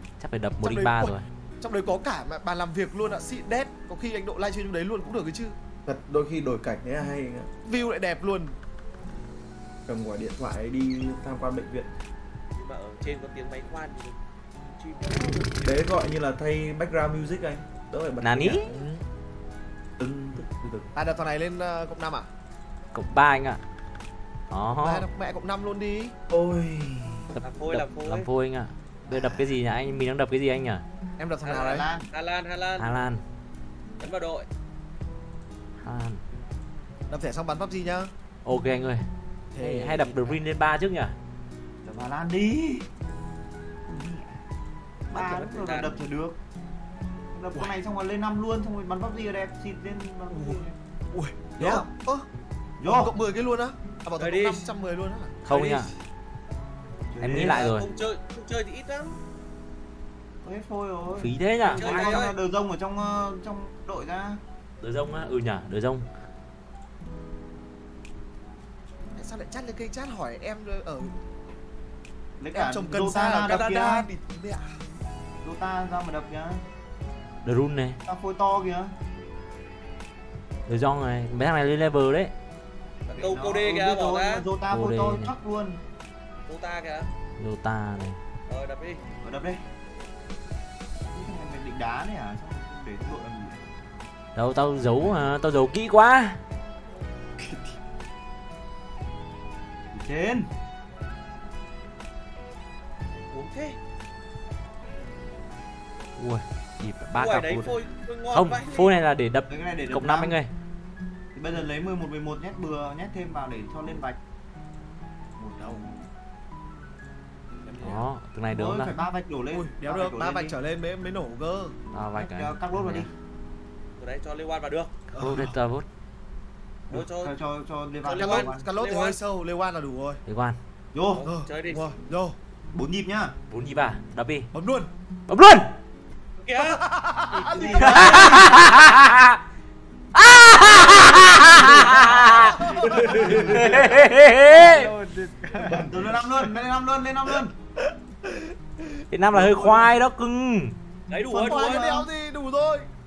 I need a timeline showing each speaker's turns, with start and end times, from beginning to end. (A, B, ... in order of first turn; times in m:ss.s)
0:00.2-0:01.3 A
0:00.6-0:05.6 B
0:05.8-0:07.5 C
0:07.6-0:08.6 B
0:09.8-0:11.9 C
0:12.5-0:15.6 D
0:15.5-0:18.6 C
0:18.2-0:18.8 A
0:18.6-0:19.0 B
0:20.0-0:20.9 C
0:20.9-0:22.3 B
0:22.9-0:23.6 A
0:24.5-0:25.0 A
0:24.8-0:26.1 B
0:26.3-0:27.3 C
0:27.3-0:30.8 A
0:27.4-0:28.3 D
0:29.1-0:29.3 E
0:31.2-0:31.9 B
0:31.4-0:32.1 E
0:32.1-0:33.0 D
0:32.8-0:33.2 A
0:34.0-0:34.4 D
0:35.8-0:36.2 A
0:37.1-0:38.1 B
0:38.4-0:39.0 A
0:39.5-0:40.4 B
0:39.6-0:41.1 A
0:41.8-0:42.9 E
0:43.8-0:44.4 E
0:45.1-0:46.4 E
0:45.1-0:45.9 D
0:47.3-0:50.8 E
0:50.3-0:50.6 B
0:51.1-0:52.2 B
0:51.6-0:51.9 E
0:52.8-0:53.1 E
0:52.8-0:55.4 B
0:54.2-0:54.6 D
0:55.4-0:55.9 A
0:55.5-0:55.9 D
0:57.1-0:57.7 E
0:57.2-0:57.9 A
0:57.3-0:59.2 D
1:00.4-1:04.4 E
1:01.2-1:02.2 A
1:01.8-1:02.4 D
1:04.8-1:06.0 A
1:09.2-1:11.2 B
1:12.4-1:14.1 E
1:12.5-1:14.8 B
1:15.4-1:16.6 E
1:17.4-1:18.0 A
1:18.0-1:19.0 E
1:20.7-1:22.3 A
1:23.1-1:24.4 D
1:23.2-1:25.8 E
1:24.7-1:25.3 A
1:26.5-1:27.1 D
1:27.4-1:28.2 A
1:28.5-1:29.0 D
1:29.2-1:29.6 E
1:31.1-1:33.6 E
1:34.3-1:36.4 A
1:39.9-1:40.5 E
1:43.3-1:43.8 D
1:46.2-1:47.8 A
1:47.1-1:48.9 D
1:48.3-1:50.5 A
1:49.5-1:50.4 E
1:51.3-1:54.2 E
1:55.4-1:56.0 E
1:57.6-1:58.0 D
1:57.8-1:58.9 A
1:58.5-2:00.6 E
1:59.5-2:01.7 B
2:01.9-2:03.1 A
2:02.1-2:03.1 E
2:04.0-2:04.9 D
2:05.1-2:05.5 E
2:05.1-2:05.8 A
2:06.9-2:07.4 D
2:06.9-2:08.6 E
2:08.0-2:09.2 D
2:08.2-2:10.2 B
2:10.2-2:10.6 A
2:10.9-2:11.3 E
2:11.1-2:11.9 D
2:11.2-2:12.4 B
2:12.7-2:13.3 E
2:13.5-2:14.5 A
2:14.5-2:14.9 B
2:15.3-2:15.7 A
2:16.4-2:18.5 D
2:16.6-2:18.4 B
2:17.5-2:18.4 E
2:17.8-2:19.4 A
2:20.1-2:22.6 A
2:22.4-2:23.2 B
2:22.8-2:23.7 C
2:22.9-2:23.9 E
2:23.2-2:24.9 A
2:24.5-2:25.0 E
2:24.7-2:26.3 C
2:25.5-2:27.5 E
2:28.2-2:29.9 B
2:29.1-2:30.8 A
2:31.1-2:32.0 D
2:31.3-2:32.1 E
2:31.4-2:32.9 B